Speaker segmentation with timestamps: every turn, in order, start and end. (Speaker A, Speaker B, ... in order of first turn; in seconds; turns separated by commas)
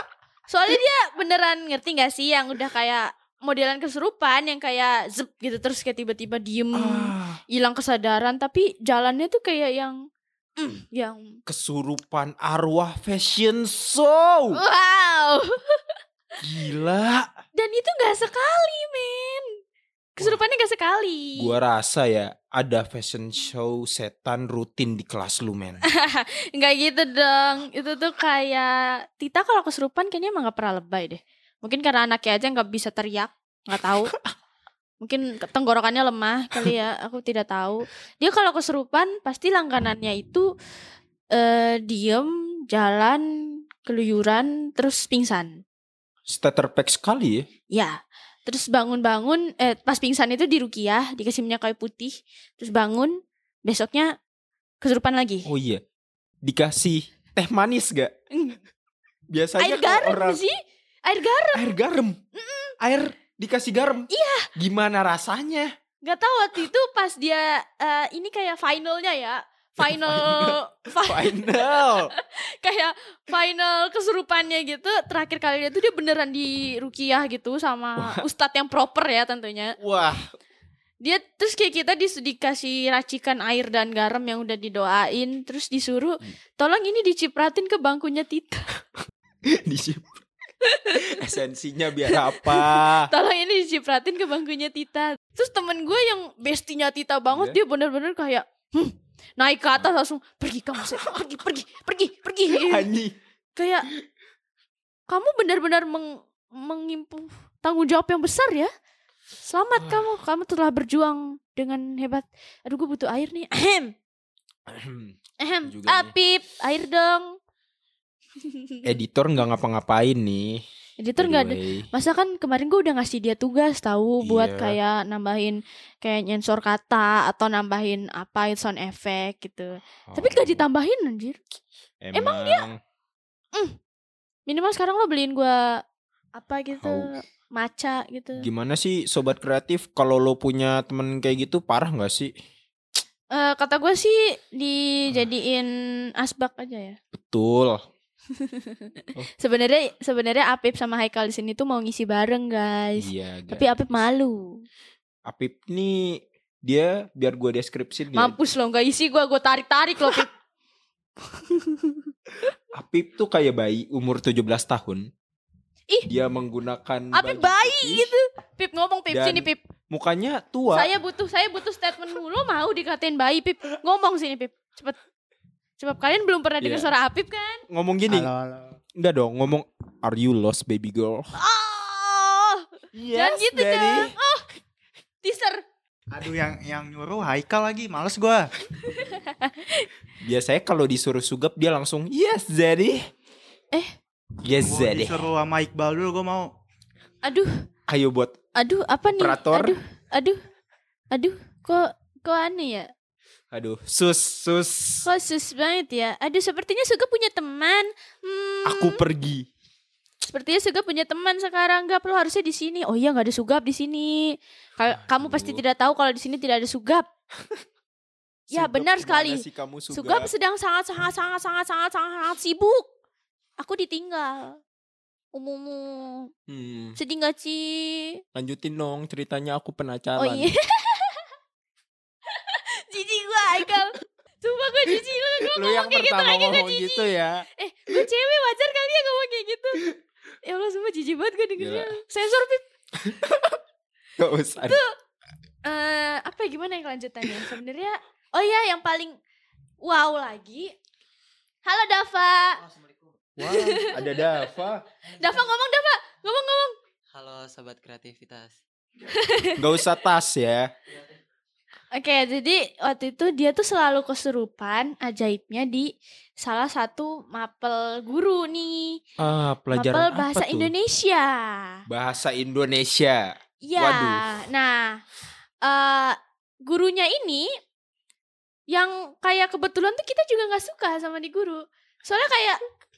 Speaker A: 0.5-10.0, Speaker B: 6.7-7.4, Speaker A: 10.6-11.4, Speaker B: 11.4-14.6, Speaker A: 14.5-16.0, Speaker B: 16.4-17.3, Speaker A: 17.5-19.4, Speaker A: 20.1-21.5, Speaker B: 21.4-25.8, Speaker A: 25.8-34.1, Speaker A: 35.0-40.5, Speaker A: 41.3-43.2, Speaker A: 43.8-45.6, Speaker B: 46.3-47.5, Speaker A: 47.7-54.1, Speaker A: 54.8-55.5, Speaker B: 55.4-55.8, Speaker B: 56.4-58.1, Speaker A: 58.3-58.6, Speaker B: 59.3-60.4, Speaker A: 59.6-61.6, Speaker B: 61.5-62.2, Speaker A: 62.3-62.7, Speaker B: 62.8-65.7, Speaker A: 64.1-64.5, Speaker A: 66.0-79.8, Speaker B: 69.8-72.1, Speaker B: 78.0-78.2, Speaker B: 79.8-80.2, Speaker A: 81.0-88.7, Speaker B: 89.6-90.2, Speaker A: 90.6-91.4, Speaker B: 90.9-93.1, Speaker A: 92.1-102.9, Speaker B: 97.3-97.6, Speaker B: 102.5-103.1, Speaker A: 103.5-103.9, Speaker A: 105.1-108.7, Speaker A: 109.4-113.9, Speaker B: 114.7-116.1, Speaker A: 115.4-117.2, Speaker A: 118.4-118.8, Speaker B: 118.8-120.6, Speaker A: 121.0-131.4, Speaker B: 121.2-121.9, Speaker B: 124.2-124.8, Speaker B: 130.1-130.6, Speaker B: 132.0-132.8, Speaker A: 132.1-132.7, Speaker A: 134.5-135.8, Speaker A: 136.4-138.4, Speaker B: 136.8-137.1, Speaker B: 138.4-142.3, Speaker A: 143.3-147.0, Speaker B: 147.1-147.8, Speaker A: 148.3-154.6, Speaker B: 153.0-153.7, Speaker B: 155.2-158.3, Speaker A: 158.1-160.3, Speaker A: 161.2-162.1, Speaker B: 162.7-165.1, Speaker B: 166.1-168.1, Speaker A: 167.1-169.6, Speaker B: 169.1-170.9, Speaker A: 170.7-175.0, Speaker A: 175.8-177.6, Speaker B: 176.6-176.9, Speaker B: 177.7-178.3, Speaker C: 178.1-178.8, Speaker B: 179.0-181.3, Speaker A: 181.4-184.5, Speaker B: 182.9-184.1, Speaker A: 185.2-185.6, Speaker C: 186.1-188.5, Speaker A: 188.8-189.9, Speaker B: 190.2-193.0, Speaker B: 194.4-195.3, Speaker C: 194.6-196.5, Speaker A: 197.2-197.5, Speaker B: 197.9-198.3, Speaker A: 198.6-200.4, Speaker B: 199.1-199.8, Speaker A: 201.1-202.9, Speaker B: 203.5-205.1, Speaker A: 205.1-209.0, Speaker B: 208.6-209.5, Speaker A: 210.2-217.0, Speaker B: 215.0-215.6, Speaker B: 218.5-220.3, Speaker A: 218.5-222.9, Speaker A: 223.6-224.6, Speaker A: 225.3-226.3, Speaker B: 226.5-227.0, Speaker A: 227.0-228.2, Speaker B: 228.3-230.5, Speaker A: 230.2-231.3, Speaker A: 232.3-239.8, Speaker B: 235.5-237.4, Speaker A: 240.4-242.6, Speaker B: 241.6-241.9, Speaker B: 243.0-243.6, Speaker B: 244.2-244.8, Speaker A: 244.6-244.9, Speaker A: 245.6-249.2, Speaker A: 249.8-250.7, Speaker A: 251.6-252.6, Speaker B: 253.4-254.8, Speaker A: 253.4-254.3, Speaker A: 255.1-256.7, Speaker C: 257.1-258.5, Speaker A: 259.1-259.8, Speaker B: 259.5-260.7, Speaker A: 261.9-265.9, Speaker A: 266.4-269.0, Speaker B: 269.2-270.7, Speaker A: 269.7-271.8, Speaker B: 271.9-274.2, Speaker A: 273.6-275.0, Speaker A: 275.6-277.5, Speaker A: 278.7-282.6